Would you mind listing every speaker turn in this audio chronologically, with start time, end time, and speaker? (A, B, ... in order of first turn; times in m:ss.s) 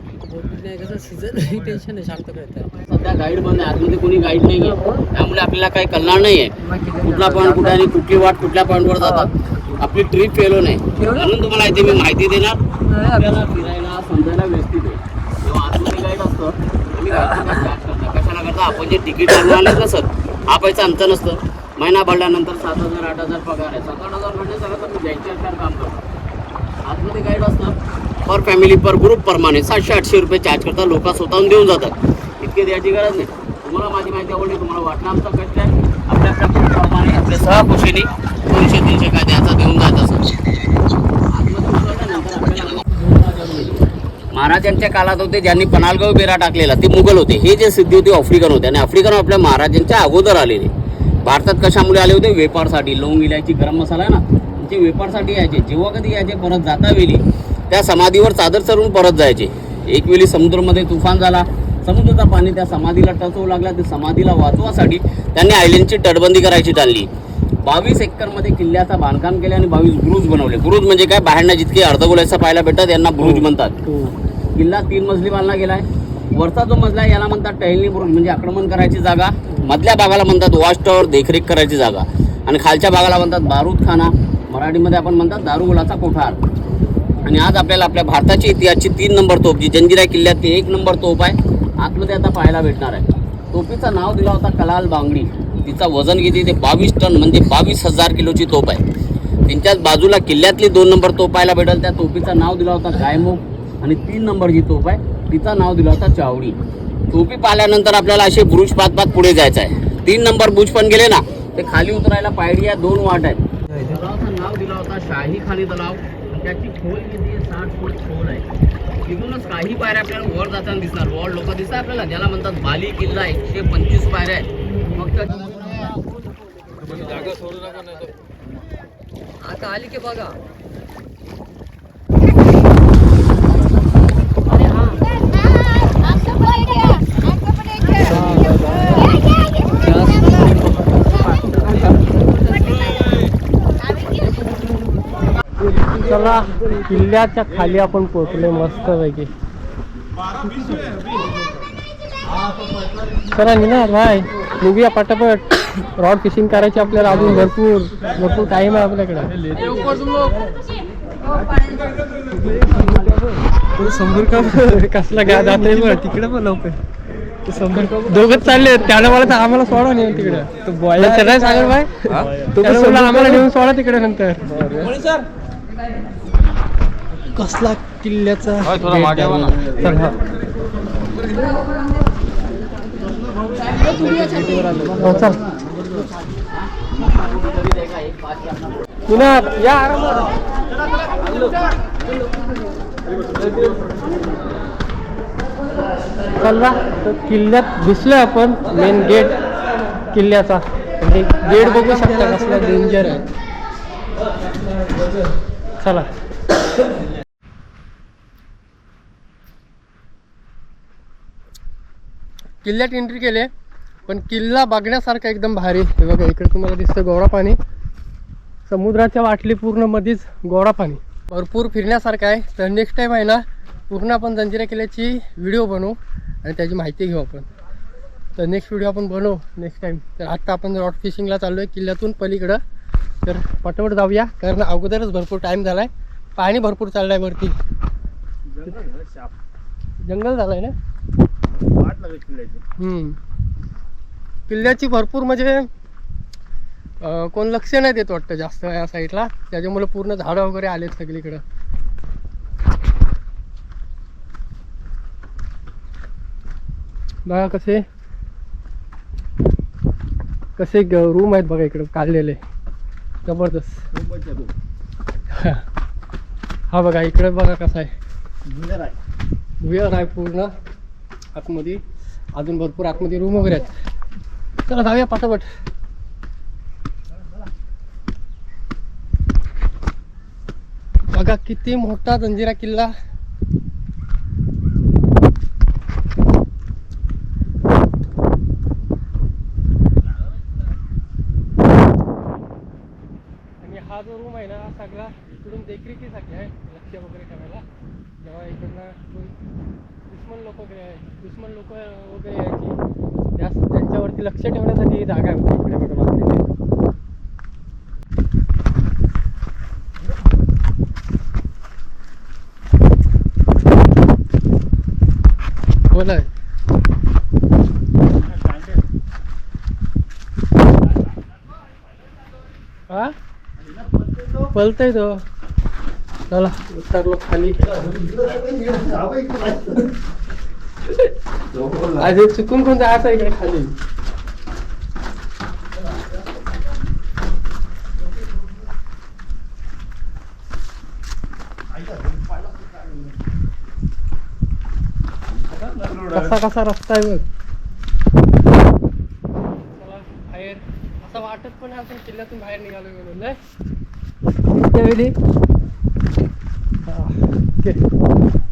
0:00.2-0:02.7 A
0:02.9-0:26.0 B
0:06.7-0:07.6 A
0:11.0-0:11.3 A
0:12.9-0:13.2 A
0:26.8-0:40.3 B
0:41.3-0:50.7 B
0:51.2-1:07.1 B
1:07.6-1:13.8 B
1:13.2-1:14.1 C
1:14.6-1:26.4 B
1:27.2-1:38.8 B
1:39.5-1:46.6 B
1:47.1-1:58.5 B
1:59.1-2:05.9 B
2:07.3-2:08.1 A
2:09.4-2:10.4 A
2:18.0-2:22.1 A
2:26.0-2:29.3 C
2:33.2-2:39.7 C
2:37.1-2:37.4 A
2:39.5-2:40.5 A
2:42.3-2:43.2 A
2:43.8-2:44.8 A
2:44.2-2:46.7 C
2:45.3-2:46.3 A
2:47.5-2:48.9 A
2:47.7-2:54.5 C
2:50.5-2:53.4 A
2:54.6-2:55.2 A
2:57.3-3:00.2 C
2:58.8-2:59.6 B
3:03.9-3:05.2 A
3:04.9-3:05.4 C
3:06.6-3:08.9 B
3:09.1-3:10.3 C
3:16.4-3:19.4 C
3:20.1-3:23.2 C
3:21.8-3:23.0 A
3:25.8-3:26.1 C
3:32.6-3:33.5 C
3:34.1-3:37.6 C
3:38.7-3:47.5 C
3:48.4-3:52.6 C
3:53.2-3:57.6 C
3:58.9-3:59.3 A
4:00.0-4:00.8 C
4:02.8-4:03.2 C
4:04.5-4:05.7 C
4:07.0-4:11.4 C
4:17.2-4:17.8 C
4:20.6-4:22.4 C
4:23.2-4:23.8 C
4:24.2-4:24.5 A
4:25.3-4:25.6 C
4:26.7-4:27.9 C
4:29.6-4:30.5 C
4:31.3-4:31.8 C
4:32.4-4:33.7 C
4:34.7-4:35.5 C
4:41.1-4:42.9 C
4:53.6-4:57.6 C
4:58.2-4:59.4 C
5:00.1-5:02.8 C
5:03.4-5:06.5 C
5:15.9-5:16.3 C
5:24.5-5:25.2 C
5:26.3-5:27.7 C
5:28.1-5:29.8 A
5:31.9-5:33.7 C
5:45.7-5:46.0 A
5:46.1-5:47.2 C
5:49.8-5:53.4 C
5:54.7-5:55.2 C
5:56.9-5:57.8 C